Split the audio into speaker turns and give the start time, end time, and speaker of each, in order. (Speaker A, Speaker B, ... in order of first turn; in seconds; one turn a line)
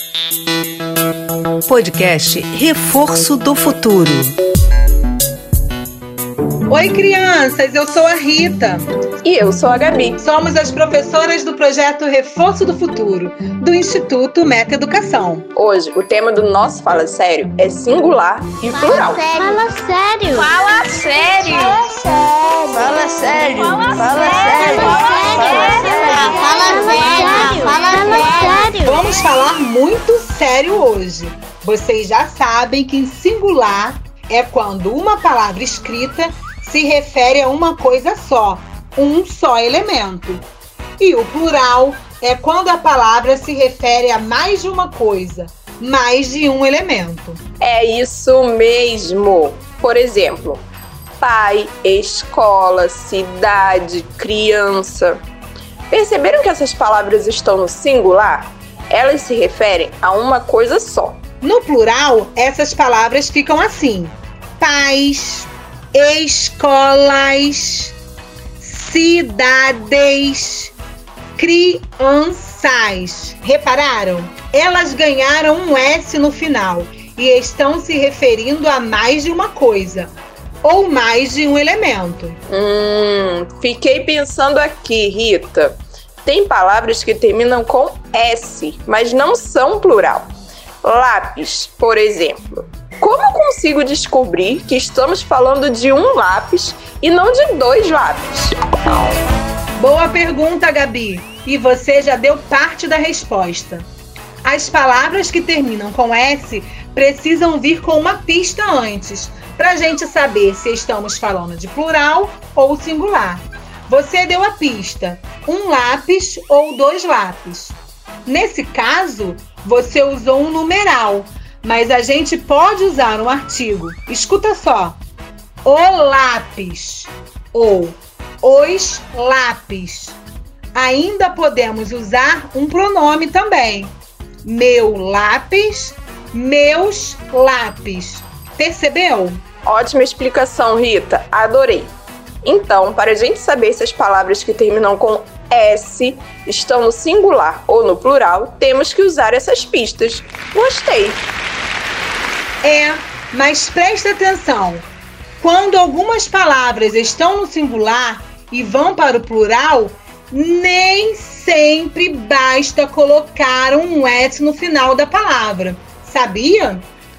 Speaker A: 1.7-4.3
Speaker B: 6.7-8.9
Speaker C: 9.2-10.2
Speaker B: 10.2-15.5
Speaker C: 15.6-19.7
Speaker D: 19.4-20.4
Speaker C: 20.3-21.9
Speaker D: 22.7-28.8
Speaker C: 23.8-24.6
Speaker B: 28.1-40.5
Speaker B: 41.0-47.4
Speaker C: 47.6-50.6
Speaker C: 51.2-55.2
Speaker C: 55.9-61.2
Speaker B: 61.4-68.0
Speaker B: 68.6-70.7
Speaker B: 71.4-80.1
Speaker B: 80.6-82.4
Speaker C: 82.5-90.3
Speaker C: 90.8-98.6
Speaker B: 99.8-103.9
Speaker B: 104.4-125.0
Speaker B: 125.6-130.2
Speaker B: 130.8-139.4
Speaker C: 139.6-151.2
Speaker B: 152.6-154.9
Speaker B: 155.4-166.8